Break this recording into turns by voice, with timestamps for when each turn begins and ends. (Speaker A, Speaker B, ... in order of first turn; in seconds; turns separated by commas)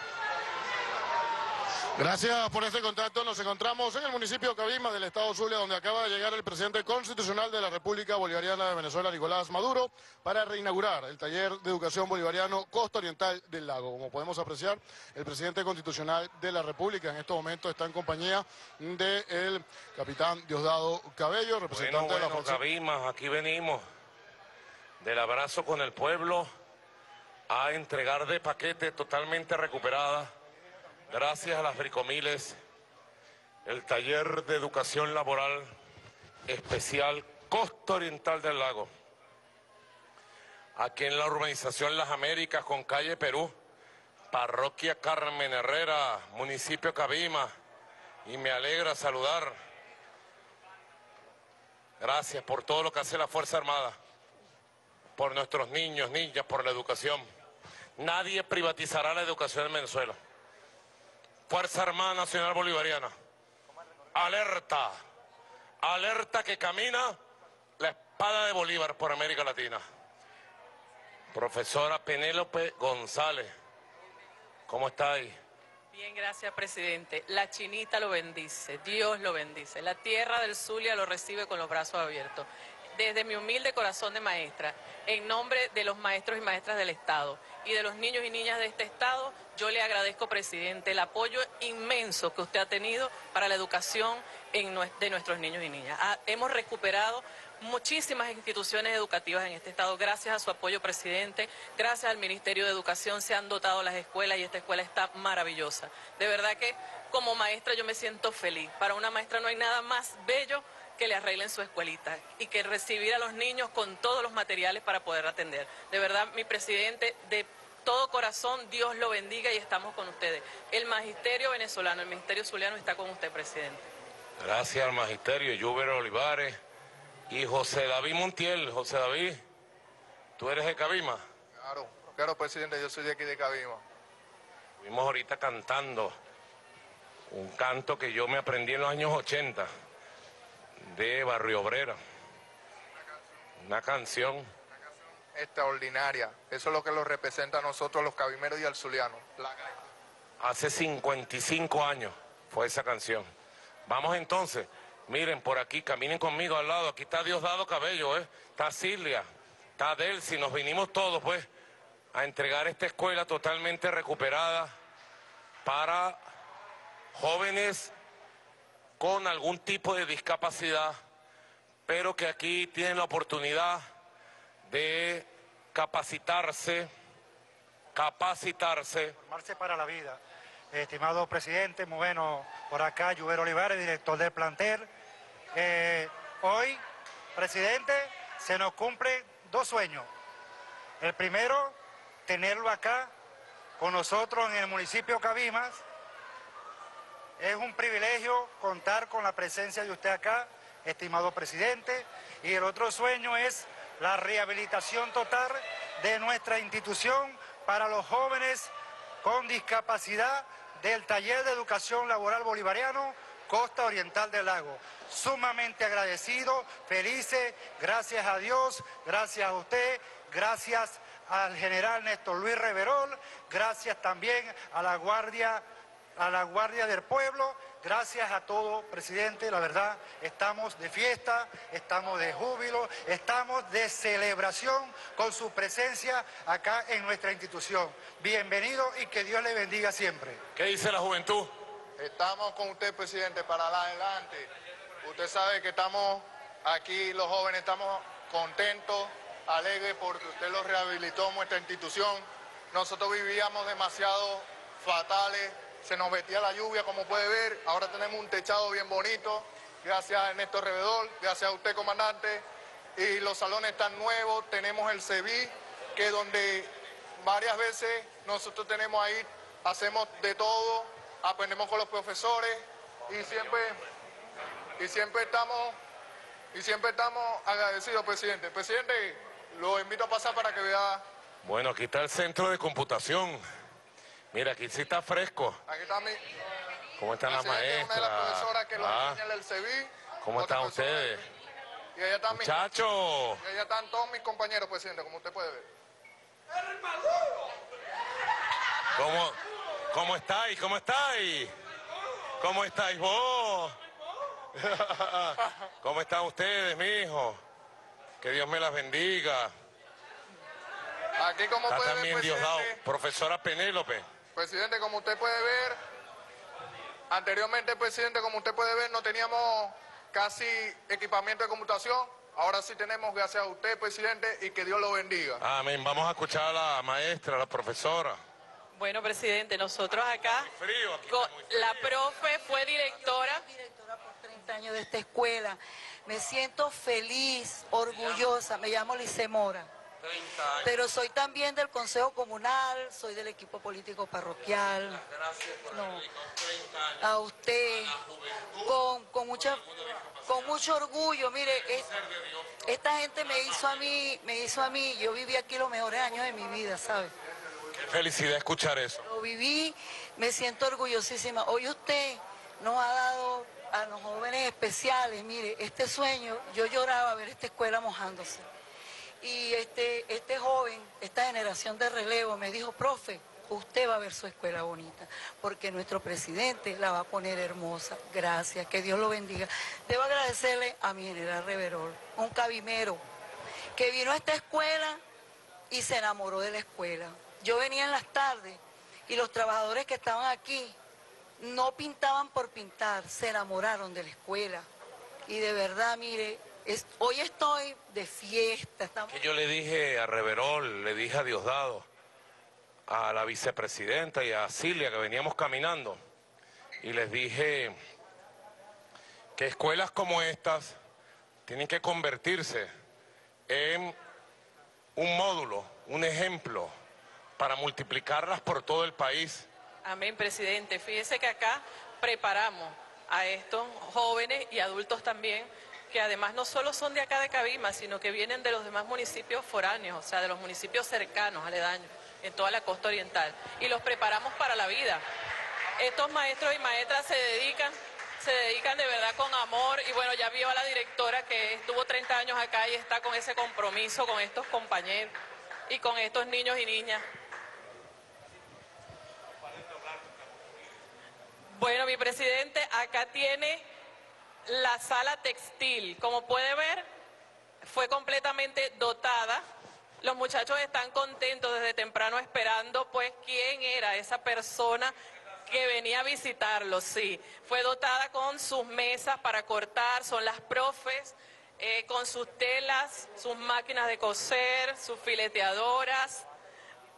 Speaker A: 2.0-22.6, Speaker B: 21.7-23.8, Speaker B: 25.0-26.5, Speaker B: 27.5-30.3, Speaker B: 31.1-32.5, Speaker B: 33.6-35.7, Speaker B: 36.5-38.9, Speaker B: 40.8-43.5, Speaker B: 44.3-47.5, Speaker B: 48.2-49.5, Speaker B: 52.0-54.0, Speaker B: 55.2-57.2, Speaker B: 58.0-60.1, Speaker B: 61.5-63.1, Speaker B: 64.1-64.9, Speaker B: 65.8-67.2, Speaker B: 67.8-69.8, Speaker B: 71.3-73.5, Speaker B: 74.7-75.3, Speaker C: 75.9-123.9, Speaker B: 124.4-126.5, Speaker B: 127.3-129.3, Speaker B: 130.4-131.2, Speaker D: 131.6-133.8, Speaker B: 134.8-136.1, Speaker B: 137.3-139.7, Speaker B: 140.8-141.9, Speaker B: 143.6-144.4, Speaker D: 145.3-149.6, Speaker B: 150.4-153.2, Speaker B: 153.9-159.2, Speaker B: 159.8-161.5, Speaker B: 162.1-164.7, Speaker B: 165.6-166.2, Speaker B: 167.1-167.9, Speaker B: 169.0-170.9, Speaker B: 171.9-173.8, Speaker B: 174.7-176.9, Speaker B: 177.9-179.2, Speaker E: 179.2-180.2, Speaker E: 180.7-184.9, Speaker E: 185.5-186.8, Speaker E: 187.3-190.1, Speaker E: 191.0-191.8, Speaker E: 192.3-193.1, Speaker E: 193.8-195.8, Speaker E: 197.4-208.7, Speaker E: 209.2-225.6, Speaker E: 226.2-240.4, Speaker B: 240.6-241.5, Speaker D: 242.0-244.5, Speaker D: 245.0-262.4, Speaker D: 262.9-273.8, Speaker D: 274.8-275.8, Speaker D: 276.5-281.0, Speaker B: 281.4-283.4, Speaker B: 284.3-285.6, Speaker D: 285.7-286.2, Speaker B: 287.0-289.2, Speaker D: 287.3-291.2, Speaker B: 290.2-291.2, Speaker D: 291.9-292.6, Speaker B: 292.3-293.4, Speaker D: 293.4-295.7, Speaker B: 299.0-299.4, Speaker B: 299.9-301.5, Speaker B: 302.4-303.8, Speaker B: 304.6-307.4, Speaker B: 308.2-309.5, Speaker D: 311.2-312.8, Speaker B: 311.6-314.0, Speaker D: 314.3-315.8, Speaker D: 317.1-325.4, Speaker B: 325.4-328.2, Speaker C: 328.7-330.4, Speaker B: 330.2-331.9, Speaker C: 331.1-333.4, Speaker F: 333.0-339.7, Speaker B: 340.1-340.8, Speaker F: 340.6-345.0, Speaker B: 345.2-347.0, Speaker F: 345.7-346.0, Speaker F: 347.0-348.0, Speaker B: 347.9-348.6, Speaker F: 348.6-349.6, Speaker B: 349.9-350.5, Speaker F: 350.3-351.9, Speaker F: 352.6-357.1, Speaker B: 357.7-359.0, Speaker F: 359.0-368.4, Speaker F: 369.2-383.0, Speaker F: 383.8-385.0, Speaker F: 385.7-390.7, Speaker F: 391.4-394.6, Speaker F: 395.3-399.1, Speaker B: 399.1-401.9, Speaker B: 402.9-406.0, Speaker B: 406.8-407.7, Speaker B: 409.4-410.7, Speaker B: 411.5-412.7, Speaker B: 413.5-413.9, Speaker B: 414.9-416.7, Speaker B: 417.4-419.5, Speaker C: 419.8-435.0, Speaker C: 435.8-445.1, Speaker C: 445.7-447.0, Speaker C: 451.5-453.6, Speaker C: 454.4-456.9, Speaker C: 457.6-459.4, Speaker C: 460.0-464.9, Speaker C: 465.5-476.2